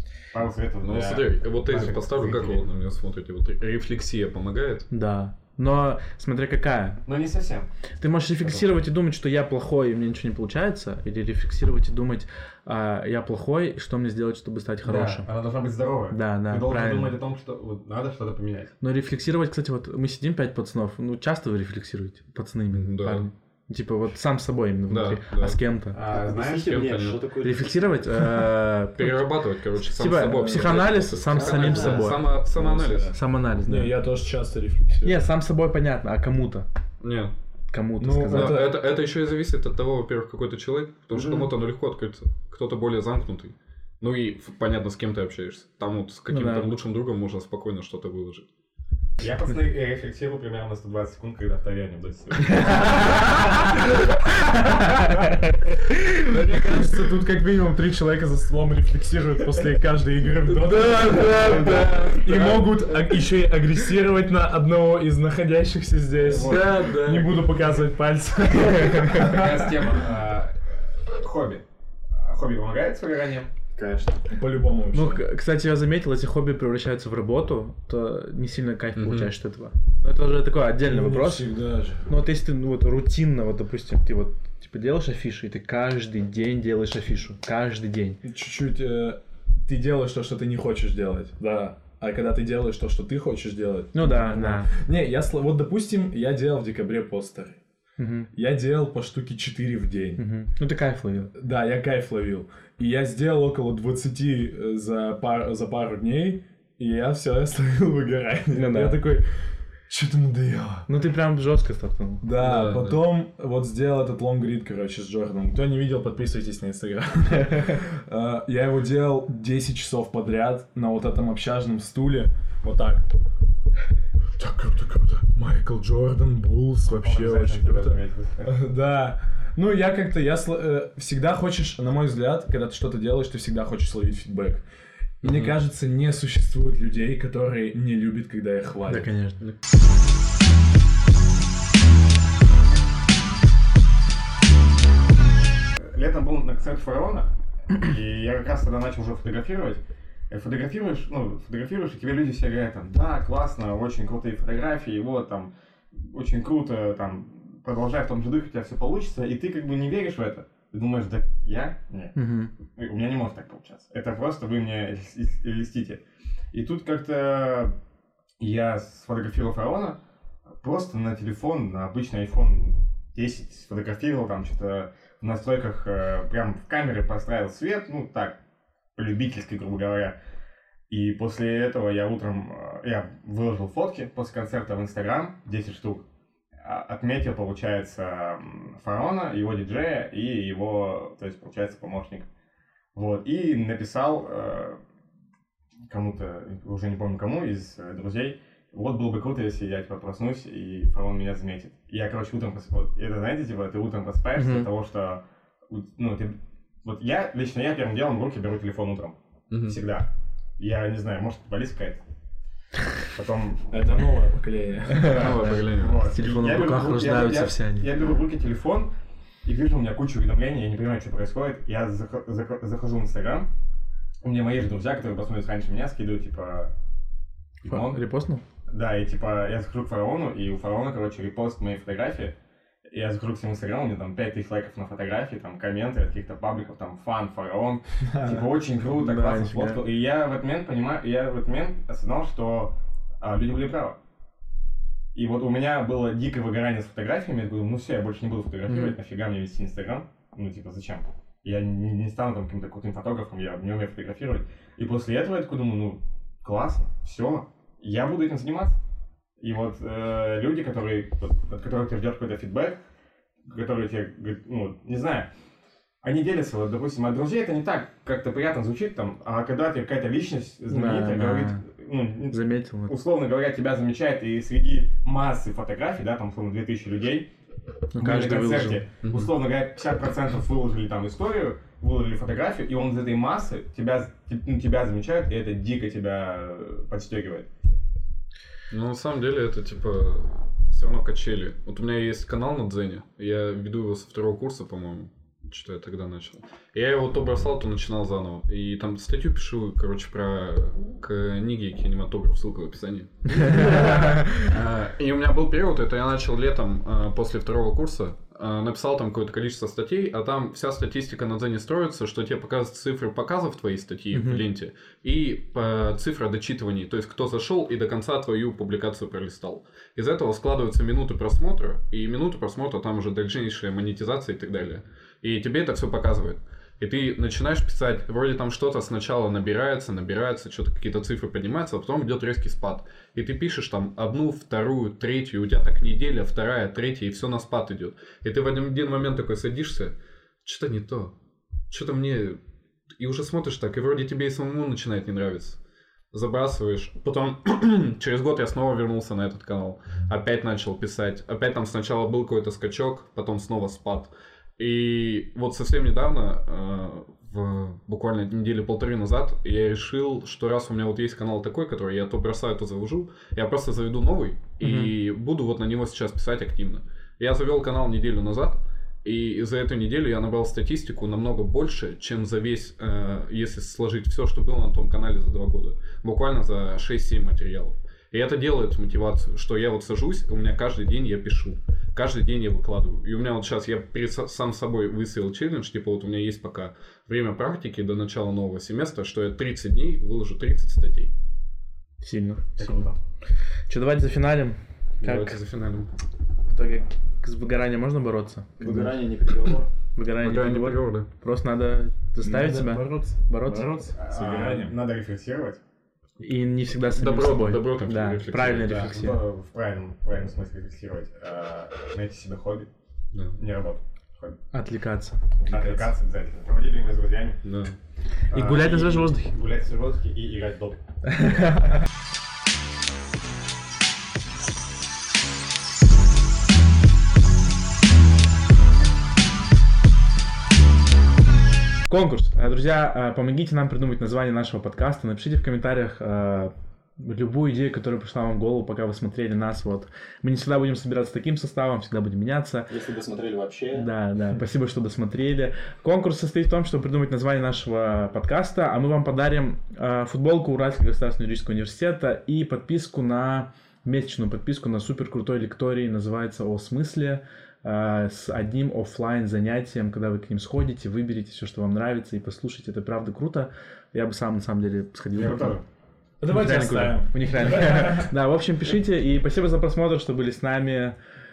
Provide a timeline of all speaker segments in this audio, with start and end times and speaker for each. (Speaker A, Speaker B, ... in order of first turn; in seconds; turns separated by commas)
Speaker A: 0.3-2.6, Speaker B: 0.8-4.9, Speaker C: 4.9-7.0, Speaker A: 7.0-7.7, Speaker C: 8.0-15.3, Speaker A: 14.8-18.8, Speaker C: 16.1-17.2, Speaker C: 18.8-26.0, Speaker B: 22.7-23.3, Speaker B: 24.9-25.6, Speaker A: 25.9-26.7, Speaker D: 26.0-28.3, Speaker B: 26.6-27.2, Speaker C: 27.4-32.3, Speaker B: 29.0-33.1, Speaker E: 30.2-31.0, Speaker D: 31.3-32.1, Speaker E: 31.7-35.3, Speaker C: 33.1-34.0, Speaker C: 35.0-36.7, Speaker B: 37.0-37.3, Speaker C: 37.7-38.7, Speaker E: 38.0-38.8, Speaker B: 38.3-48.5, Speaker C: 46.3-46.7, Speaker A: 49.2-53.6, Speaker C: 52.5-53.7, Speaker C: 54.7-55.5, Speaker E: 56.2-69.6, Speaker B: 60.5-62.7, Speaker C: 61.6-61.9, Speaker A: 66.2-67.0, Speaker B: 66.3-67.4, Speaker C: 68.5-69.3, Speaker A: 69.2-73.5, Speaker D: 73.7-74.3, Speaker E: 74.3-75.2, Speaker C: 74.9-81.5, Speaker B: 79.0-79.3, Speaker E: 80.8-82.1, Speaker C: 82.1-88.2, Speaker E: 88.2-97.6, Speaker C: 93.9-94.7, Speaker C: 98.0-98.3, Speaker E: 98.3-100.2, Speaker C: 100.2-101.3, Speaker E: 101.4-110.9, Speaker C: 108.5-109.0, Speaker C: 110.9-112.3, Speaker E: 112.2-123.1, Speaker B: 112.4-113.0, Speaker E: 124.4-134.7, Speaker A: 126.8-128.5, Speaker E: 135.2-139.1, Speaker B: 135.2-135.5, Speaker C: 138.9-139.4, Speaker A: 145.8-167.7, Speaker C: 162.2-162.5, Speaker A: 168.4-170.0, Speaker A: 170.6-178.4, Speaker A: 179.0-180.2, Speaker A: 180.9-186.1, Speaker A: 186.6-192.3, Speaker A: 192.9-194.8, Speaker A: 195.9-212.0, Speaker C: 204.4-204.7, Speaker B: 209.5-209.8, Speaker A: 213.1-214.2, Speaker E: 213.7-215.4, Speaker C: 214.9-217.9, Speaker A: 215.1-218.9, Speaker B: 215.1-216.0, Speaker A: 219.4-223.5, Speaker A: 224.2-226.7, Speaker A: 227.6-228.0, Speaker C: 227.7-228.4, Speaker A: 228.7-232.4, Speaker A: 232.9-244.0, Speaker C: 238.9-239.8, Speaker A: 245.1-258.8, Speaker C: 248.7-249.0, Speaker A: 259.4-262.8, Speaker A: 263.4-265.3, Speaker A: 266.0-277.3, Speaker C: 270.7-271.6, Speaker C: 272.3-272.9, Speaker C: 277.9-278.8, Speaker A: 278.0-287.5, Speaker B: 279.0-279.3, Speaker B: 288.7-341.1, Speaker C: 303.4-304.4, Speaker C: 314.1-314.4, Speaker B: 341.7-342.4, Speaker B: 343.0-345.6, Speaker B: 346.1-391.1, Speaker C: 364.6-364.9, Speaker C: 392.0-392.9, Speaker A: 392.6-393.0, Speaker C: 393.7-395.4, Speaker B: 395.0-395.9, Speaker C: 396.5-399.0, Speaker D: 398.6-399.7, Speaker C: 400.0-403.8, Speaker B: 400.2-401.1, Speaker E: 402.2-404.8, Speaker A: 404.0-405.6, Speaker C: 406.2-409.2, Speaker B: 406.9-409.1, Speaker A: 408.5-412.7, Speaker A: 413.4-414.4, Speaker C: 414.5-415.9, Speaker A: 415.4-417.4, Speaker B: 417.4-417.8, Speaker C: 418.3-419.3, Speaker A: 418.3-420.8, Speaker C: 421.1-421.8, Speaker C: 431.9-442.7, Speaker D: 442.7-443.9, Speaker C: 443.7-465.6, Speaker A: 465.1-465.6, Speaker E: 466.2-468.1, Speaker C: 466.3-471.0